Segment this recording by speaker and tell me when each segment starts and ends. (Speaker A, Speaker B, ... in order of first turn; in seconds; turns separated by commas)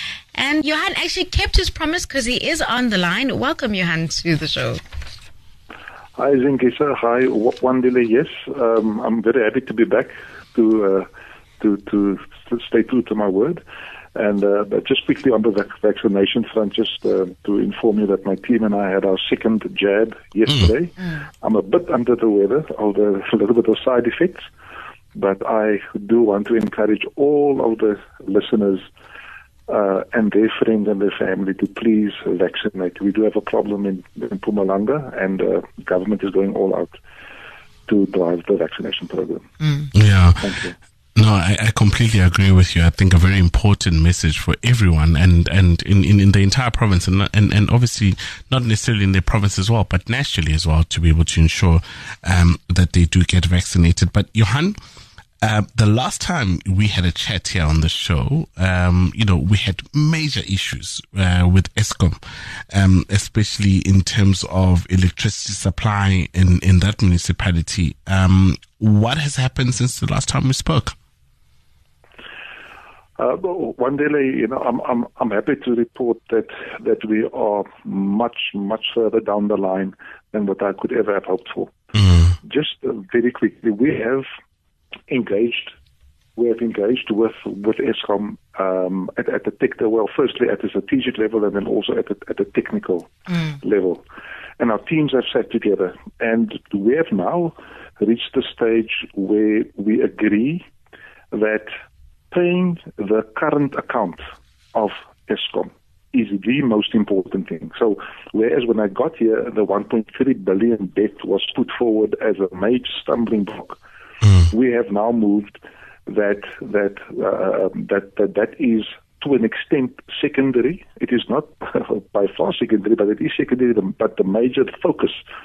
Speaker A: 0.3-4.8, Speaker B: 6.2-11.1, Speaker B: 11.6-13.6, Speaker B: 14.1-24.5, Speaker B: 25.1-28.9, Speaker B: 29.7-37.0, Speaker B: 37.9-39.5, Speaker C: 39.9-40.4, Speaker B: 40.4-40.8, Speaker C: 41.1-54.8, Speaker C: 55.4-71.0, Speaker B: 73.2-81.8, Speaker C: 81.9-82.3, Speaker B: 82.4-84.2, Speaker B: 85.1-85.7, Speaker B: 86.3-94.0, Speaker B: 94.6-100.7, Speaker B: 101.3-101.7, Speaker B: 102.3-113.8, Speaker C: 114.2-114.5, Speaker B: 114.5-125.2